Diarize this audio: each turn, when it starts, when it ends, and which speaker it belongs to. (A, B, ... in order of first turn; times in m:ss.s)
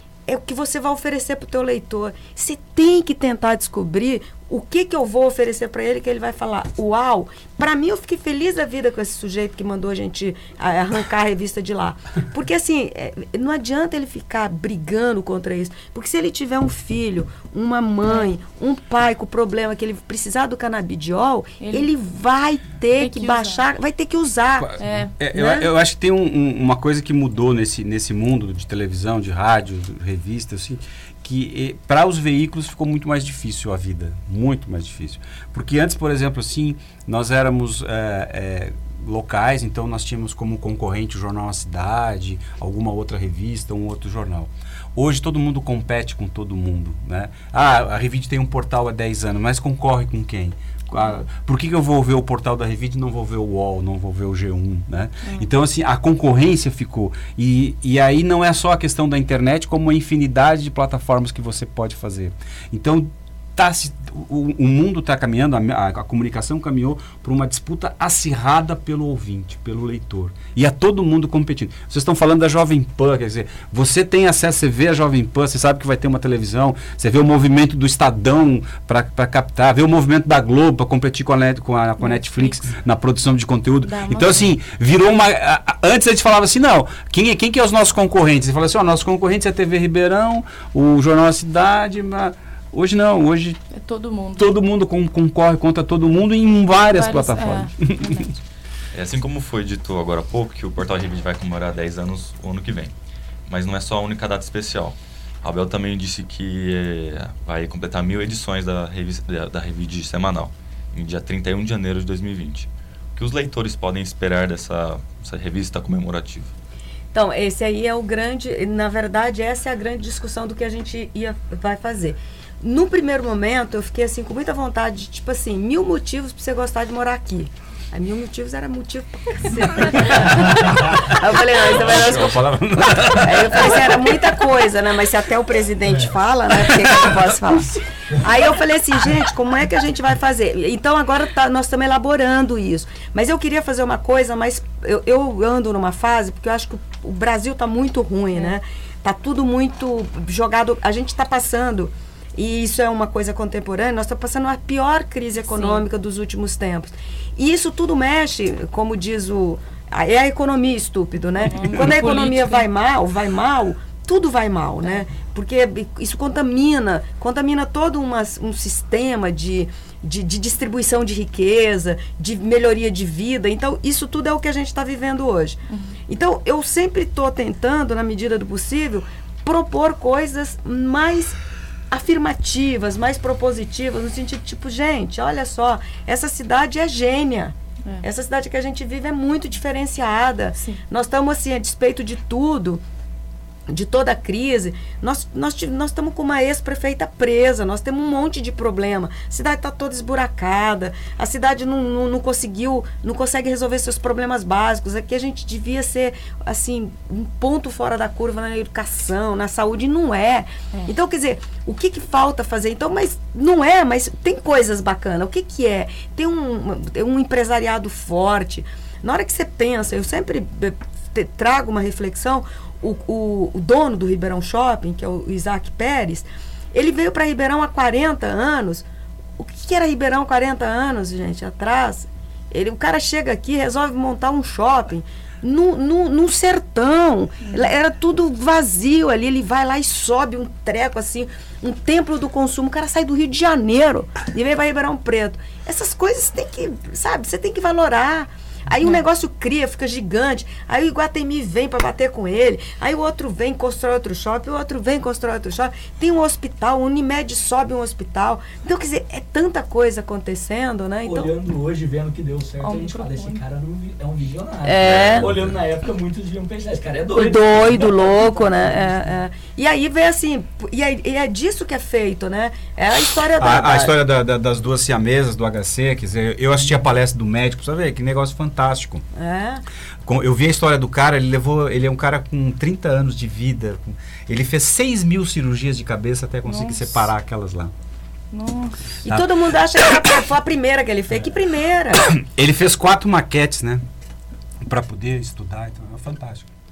0:00.3-0:24.7 A
0:21.6-0:21.9 B
0:22.9-0:23.6 B
0:24.8-0:25.1 B
0:25.2-1:33.6 C
0:25.3-0:25.7 A
0:51.0-0:51.2 B
0:55.2-0:55.5 B
1:22.0-1:22.7 B
1:23.8-1:24.5 B
1:33.7-1:34.5 B
1:34.4-1:38.3 C
1:36.9-1:38.3 B
1:38.9-1:42.9 D
1:43.5-1:56.5 D
1:57.1-2:12.4 A
2:09.8-2:14.2 C
2:13.2-3:01.4 A
2:16.6-2:17.2 C
2:35.4-2:35.8 B
2:41.4-2:42.7 B
2:55.7-2:56.0 B
3:01.9-3:12.8 A
3:13.7-3:48.9 A
3:49.4-4:21.3 A
4:21.0-4:29.1 E
4:22.6-4:23.4 B
4:24.6-4:25.3 A
4:27.2-4:34.0 A
4:33.4-4:39.0 C
4:39.2-4:39.6 A
4:40.0-4:47.7 C
4:46.4-4:47.1 B
4:48.3-4:49.0 B
4:49.0-4:52.0 A
4:49.1-4:49.3 C
4:52.0-4:53.8 C
4:54.6-4:56.5 C